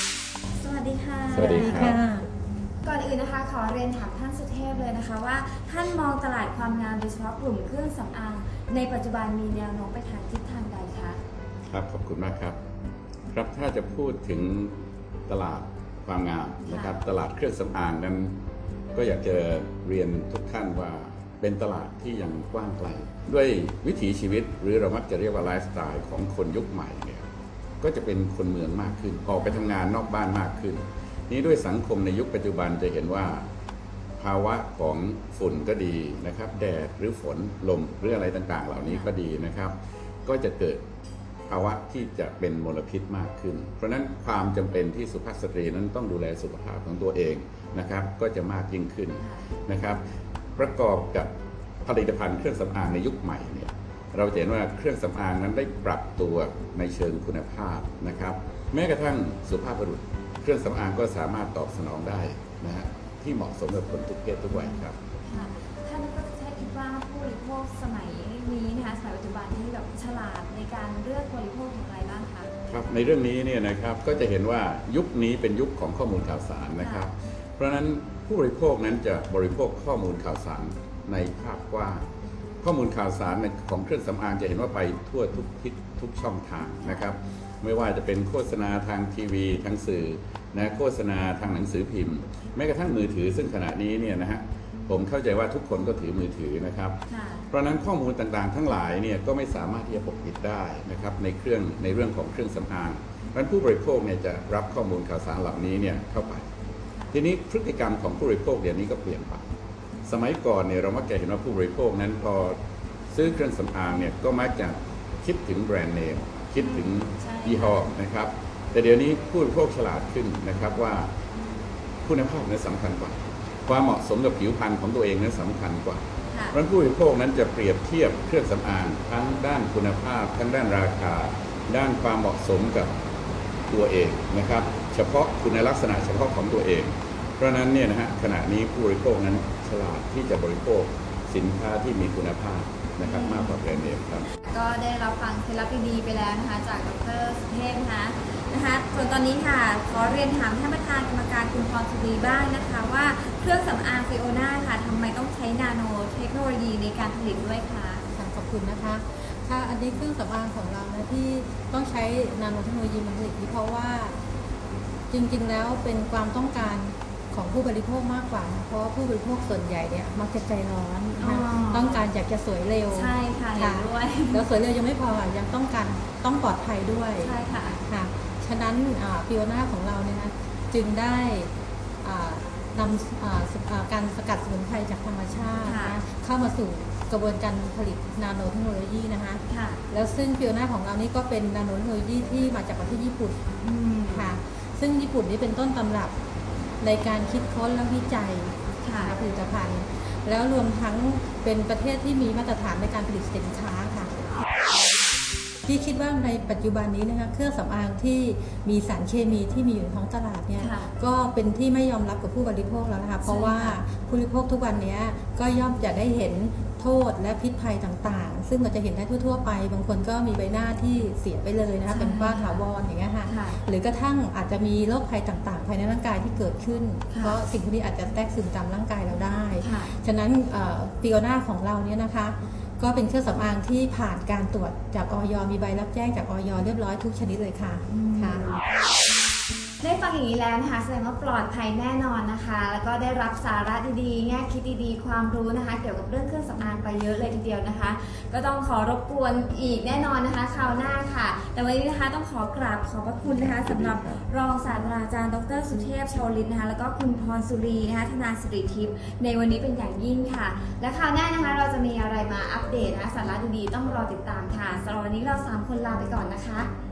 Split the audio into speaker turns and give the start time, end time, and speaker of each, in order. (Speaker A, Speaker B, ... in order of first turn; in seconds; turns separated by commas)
Speaker A: 0.6-2.0, Speaker B: 1.3-2.0, Speaker C: 1.5-2.3, Speaker A: 2.8-11.2, Speaker B: 11.7-12.6, Speaker B: 13.3-18.4, Speaker A: 16.7-17.0, Speaker B: 18.9-27.3, Speaker B: 27.8-33.5, Speaker B: 34.2-39.7, Speaker B: 40.2-40.8, Speaker B: 41.5-50.0, Speaker B: 50.6-51.3, Speaker B: 51.8-65.0, Speaker A: 64.5-72.5, Speaker B: 72.7-82.0, Speaker A: 76.8-77.1, Speaker B: 82.6-97.0, Speaker A: 86.8-87.1, Speaker A: 97.1-97.4, Speaker B: 97.5-106.5, Speaker B: 107.1-109.4, Speaker B: 110.0-112.6, Speaker B: 113.1-121.1, Speaker A: 116.6-117.9, Speaker B: 122.0-133.0, Speaker B: 133.7-144.3, Speaker A: 143.0-143.6, Speaker A: 144.4-158.0, Speaker C: 158.1-164.2, Speaker C: 165.1-193.4, Speaker A: 171.2-172.1, Speaker A: 172.9-174.4, Speaker A: 177.2-177.8, Speaker A: 185.6-186.0, Speaker A: 189.5-189.8, Speaker A: 193.6-194.3, Speaker C: 194.1-196.2, Speaker C: 196.8-204.2, Speaker A: 198.8-199.2, Speaker C: 205.6-238.6, Speaker A: 210.6-210.9, Speaker A: 213.2-213.8, Speaker A: 221.9-222.7, Speaker A: 223.3-223.6, Speaker A: 227.1-227.4, Speaker A: 229.6-229.9, Speaker A: 237.9-238.5, Speaker A: 239.8-266.7, Speaker B: 253.4-254.2